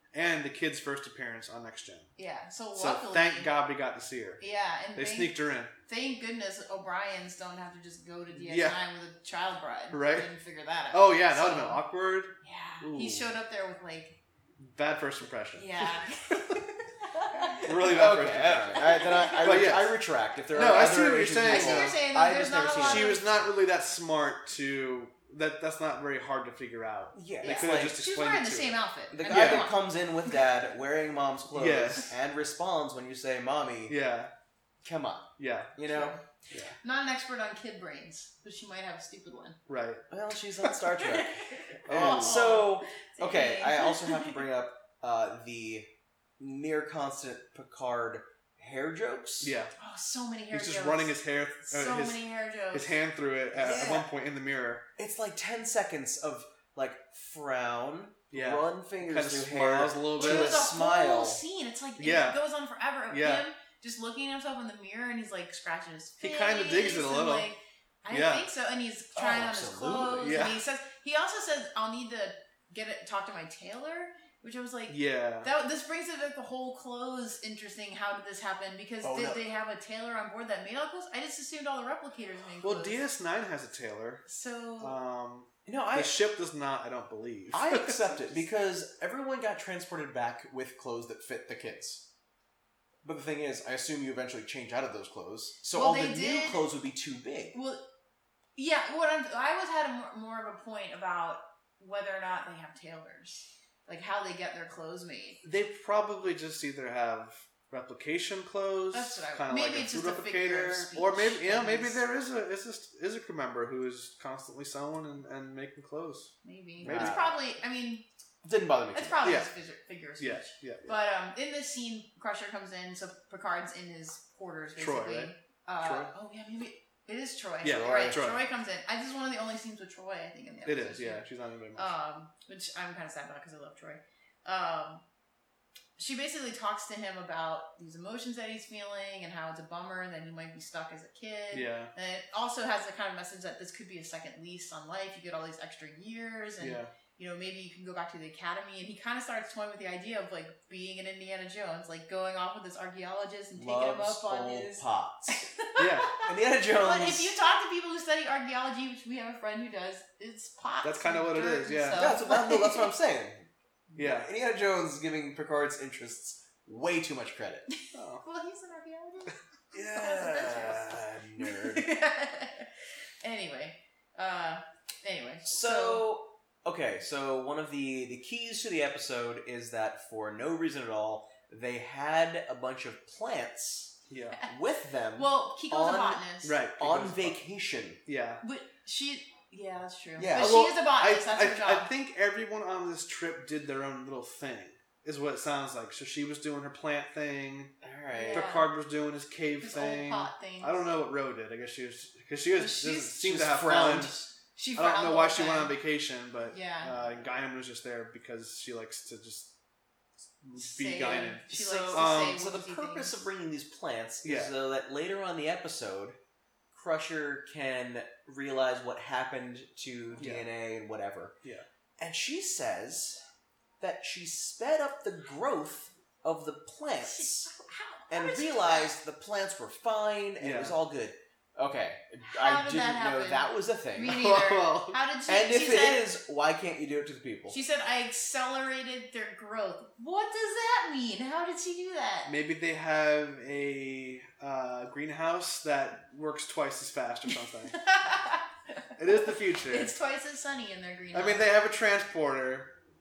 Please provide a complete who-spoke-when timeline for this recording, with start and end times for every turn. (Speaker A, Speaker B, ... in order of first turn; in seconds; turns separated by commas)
Speaker A: 0.1-2.1, Speaker B: 2.1-3.5, Speaker A: 2.7-4.4, Speaker B: 4.4-5.3, Speaker A: 4.9-5.7, Speaker B: 5.9-11.8, Speaker A: 8.3-8.8, Speaker A: 9.9-10.3, Speaker A: 10.9-13.3, Speaker B: 12.4-14.2, Speaker A: 14.6-16.6, Speaker B: 15.6-17.9, Speaker C: 17.6-23.1, Speaker A: 17.6-22.0, Speaker B: 18.7-19.5, Speaker B: 21.4-23.2, Speaker A: 22.8-29.7, Speaker C: 27.1-28.0, Speaker B: 27.4-29.8, Speaker C: 29.1-34.0, Speaker A: 31.5-32.1, Speaker A: 33.9-34.3, Speaker C: 34.8-36.1, Speaker A: 35.4-35.8, Speaker B: 35.9-36.2, Speaker A: 36.5-36.8, Speaker B: 36.8-39.6, Speaker A: 39.7-40.0, Speaker C: 40.1-49.5, Speaker B: 40.7-44.4, Speaker A: 41.9-42.5, Speaker A: 49.4-49.7, Speaker B: 49.8-53.0, Speaker A: 50.5-54.8, Speaker C: 53.5-54.1, Speaker C: 55.0-61.4, Speaker A: 58.3-60.7, Speaker B: 60.1-83.0, Speaker A: 62.0-62.4, Speaker A: 63.1-63.4, Speaker A: 66.2-67.5, Speaker A: 68.1-68.4, Speaker C: 69.1-70.4, Speaker A: 70.2-70.6, Speaker A: 74.9-75.5, Speaker C: 79.0-79.4, Speaker A: 82.6-84.2, Speaker B: 84.2-84.9, Speaker A: 84.8-88.2, Speaker C: 85.7-86.2, Speaker C: 87.5-92.0, Speaker C: 93.0-97.5, Speaker B: 95.7-96.6, Speaker B: 97.5-97.8, Speaker B: 98.5-105.4, Speaker A: 105.4-117.3, Speaker B: 108.9-112.0, Speaker B: 116.4-118.0, Speaker C: 116.8-117.3, Speaker C: 118.4-119.3, Speaker B: 118.9-131.2, Speaker A: 119.2-119.5, Speaker A: 120.2-121.0, Speaker A: 124.8-126.1, Speaker A: 127.6-128.4, Speaker C: 127.7-128.2, Speaker A: 130.7-131.9, Speaker B: 131.8-135.0, Speaker B: 136.0-162.9, Speaker A: 141.5-141.9, Speaker A: 146.6-146.9, Speaker C: 153.5-155.5, Speaker A: 155.8-156.2, Speaker C: 156.2-157.3, Speaker A: 160.8-162.1, Speaker C: 161.9-167.7, Speaker A: 163.9-164.3, Speaker B: 167.7-172.7, Speaker A: 167.9-168.2, Speaker C: 169.7-171.9, Speaker B: 173.2-176.1, Speaker C: 175.4-183.9, Speaker A: 184.1-184.4, Speaker C: 184.4-186.2, Speaker B: 185.1-186.6, Speaker A: 186.4-187.4, Speaker C: 186.8-188.0, Speaker A: 188.1-188.4, Speaker B: 188.4-191.9, Speaker C: 190.2-190.5, Speaker A: 190.3-197.7, Speaker C: 197.8-198.5, Speaker B: 198.1-198.7, Speaker A: 198.3-204.2, Speaker B: 199.6-200.8, Speaker B: 202.5-203.2, Speaker C: 203.2-204.3, Speaker B: 204.5-205.7, Speaker A: 204.8-209.5, Speaker B: 206.5-207.1, Speaker A: 210.4-212.4, Speaker B: 210.6-213.1, Speaker C: 211.5-216.2, Speaker A: 214.2-214.5, Speaker C: 216.7-221.3, Speaker A: 220.2-220.5, Speaker C: 222.0-223.2, Speaker C: 223.8-227.5, Speaker B: 227.0-228.9, Speaker C: 228.1-234.2, Speaker A: 230.4-230.8, Speaker B: 232.3-236.1, Speaker A: 234.0-235.0, Speaker C: 235.3-237.6, Speaker B: 237.5-242.3, Speaker A: 242.2-247.8, Speaker B: 247.3-251.5, Speaker A: 249.0-249.9, Speaker A: 251.1-252.7